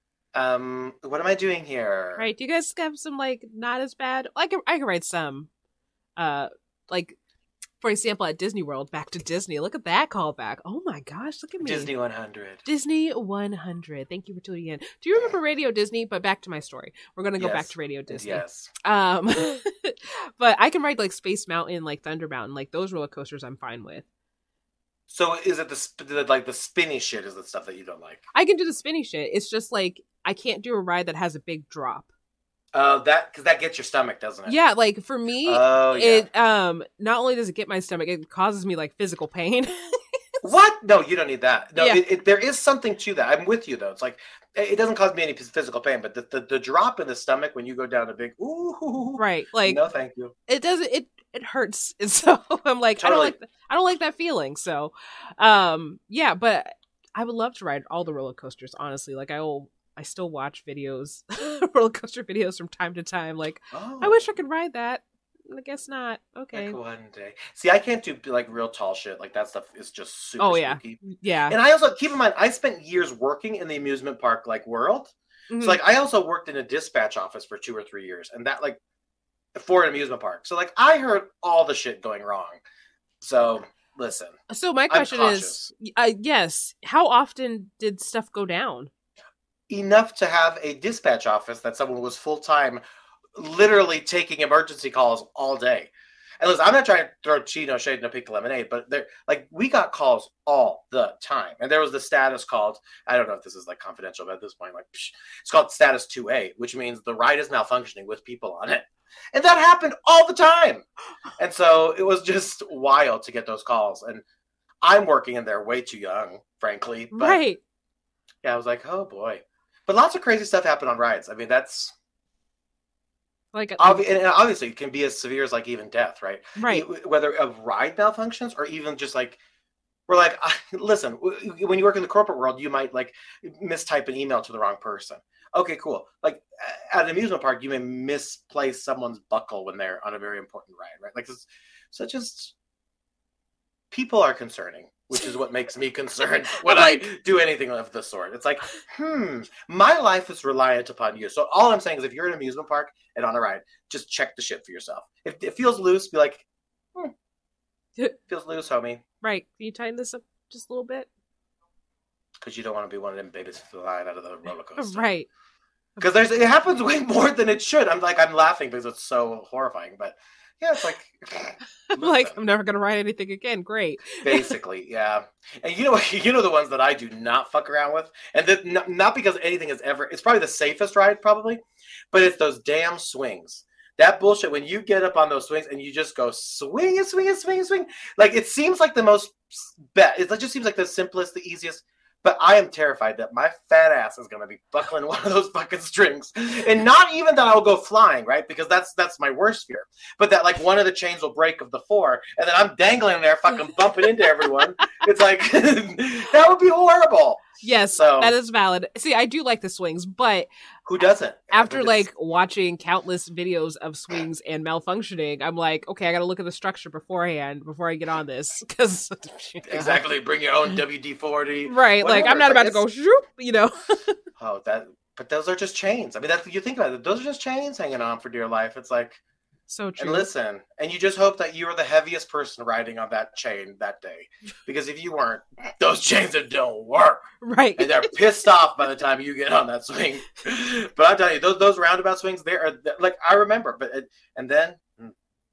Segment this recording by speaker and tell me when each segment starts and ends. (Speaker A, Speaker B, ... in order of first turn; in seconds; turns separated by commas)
Speaker A: 0.3-2.3, Speaker B: 2.2-5.5, Speaker B: 6.2-7.2, Speaker B: 7.8-11.9, Speaker A: 11.6-12.6, Speaker B: 12.6-24.0, Speaker A: 17.4-18.7, Speaker A: 25.1-28.2, Speaker B: 28.3-32.1, Speaker A: 32.7-34.6, Speaker B: 34.5-40.0, Speaker A: 35.4-36.3, Speaker A: 40.4-50.3, Speaker B: 41.8-42.0, Speaker B: 49.1-49.8, Speaker B: 50.5-66.8, Speaker A: 53.0-53.4, Speaker A: 63.7-64.3, Speaker A: 66.5-78.8, Speaker B: 70.4-71.6, Speaker B: 75.5-75.8, Speaker A: 79.5-82.6, Speaker A: 83.2-84.4, Speaker B: 84.5-88.9, Speaker A: 84.9-85.7, Speaker A: 89.7-92.8, Speaker A: 93.3-110.8, Speaker A: 111.4-114.2, Speaker A: 114.8-117.4, Speaker B: 117.1-117.6, Speaker A: 118.4-121.9, Speaker B: 123.5-124.0, Speaker A: 123.8-129.4, Speaker B: 126.6-126.8, Speaker A: 130.1-142.5, Speaker A: 143.9-157.1, Speaker B: 146.7-147.0, Speaker A: 158.3-159.0, Speaker B: 159.2-161.1, Speaker A: 162.4-165.1, Speaker B: 164.8-165.3, Speaker A: 166.0-172.4, Speaker B: 171.9-174.5, Speaker A: 174.2-208.3, Speaker B: 207.6-210.5, Speaker A: 210.8-212.1, Speaker B: 211.5-220.0, Speaker A: 219.7-222.8, Speaker B: 221.7-224.2, Speaker A: 224.4-229.2, Speaker B: 229.7-230.3, Speaker A: 230.0-237.2, Speaker B: 237.4-238.1, Speaker A: 237.8-245.1